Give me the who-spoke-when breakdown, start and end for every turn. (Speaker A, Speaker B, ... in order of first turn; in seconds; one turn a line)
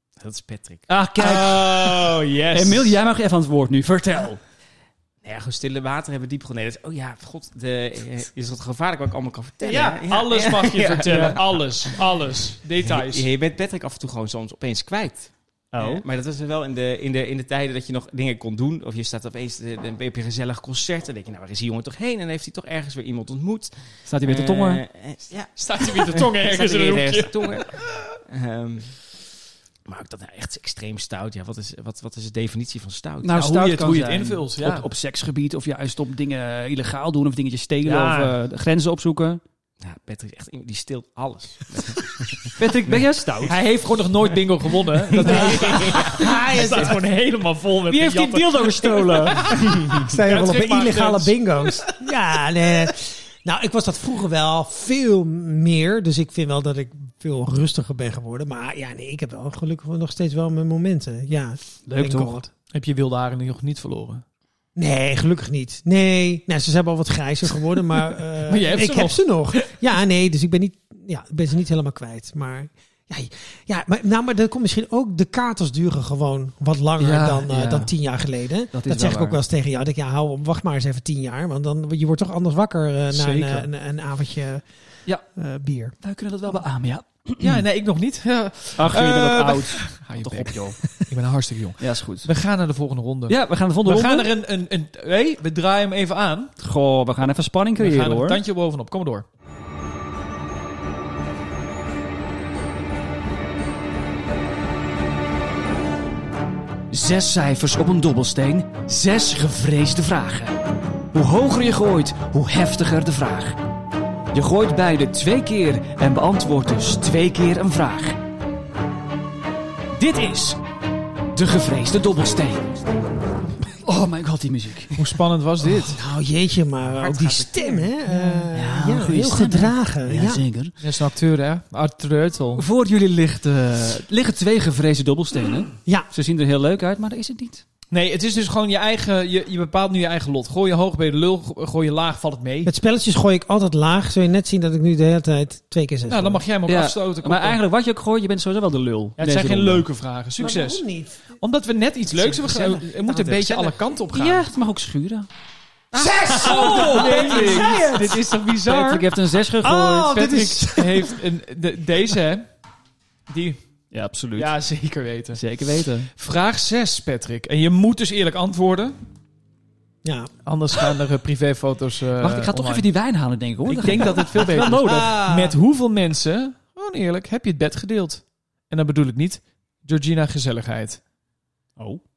Speaker A: 0.2-0.9
Speaker B: 0.9-4.4
Speaker C: 1.2-3.0
Speaker A: 5.2-12.0
Speaker C: 9.6-13.3
Speaker B: 11.1-11.4
Speaker A: 12.8-29.0
Speaker B: 15.7-16.0
Speaker B: 24.1-24.8
Speaker C: 25.6-28.0
Speaker A: 29.9-33.3
Speaker B: 33.2-39.4
Speaker C: 33.3-34.9
Speaker C: 37.8-38.4
Speaker A: 39.8-43.0
Speaker B: 42.6-43.6
Speaker C: 43.4-51.9
Speaker A: 45.0-46.2
Speaker D: 45.2-47.0
Speaker B: 47.9-50.0
Speaker D: 49.9-62.5
Speaker B: 61.9-62.4
Speaker C: 62.7-64.2
Speaker D: 64.8-84.7
Speaker C: 68.5-69.7
Speaker B: 77.0-77.9
Speaker B: 78.7-79.4
Speaker C: 83.1-83.7
Speaker D: 85.3-85.9
Speaker B: 86.0-87.6
Speaker C: 87.4-96.5
Speaker B: 88.8-90.8
Speaker B: 91.8-92.3
Speaker B: 93.3-94.3
Speaker B: 96.6-98.4
Speaker C: 97.8-99.2
Speaker B: 106.9-110.6
Speaker B: 111.1-113.6
Speaker B: 114.3-118.2
Speaker B: 120.0-120.6
Speaker B: 121.3-122.7
Speaker B: 123.8-125.0
Speaker C: 125.0-126.0
Speaker D: 125.7-130.4
Speaker A: 126.9-127.9
Speaker B: 128.5-130.8
Speaker C: 130.8-132.6
Speaker B: 132.6-137.6
Speaker C: 137.9-142.7
Speaker D: 142.7-146.4
Speaker C: 146.1-147.6
Speaker B: 146.7-149.9
Speaker C: 149.2-150.8
Speaker D: 150.4-151.4
Speaker C: 151.4-154.5
Speaker D: 152.2-153.4
Speaker A: 153.0-153.7
Speaker B: 154.1-155.3
Speaker A: 155.9-157.5
Speaker D: 155.9-158.2
Speaker C: 156.4-159.1
Speaker B: 156.4-157.7
Speaker B: 158.7-160.2
Speaker D: 159.6-161.2
Speaker C: 160.1-162.5
Speaker C: 163.3-163.6
Speaker B: 163.9-164.6
Speaker C: 164.3-165.4
Speaker B: 165.3-166.1
Speaker C: 166.1-169.0
Speaker D: 170.0-170.3
Speaker C: 170.4-172.9
Speaker B: 172.2-175.2
Speaker C: 173.7-181.0
Speaker D: 174.2-175.6
Speaker B: 181.8-182.0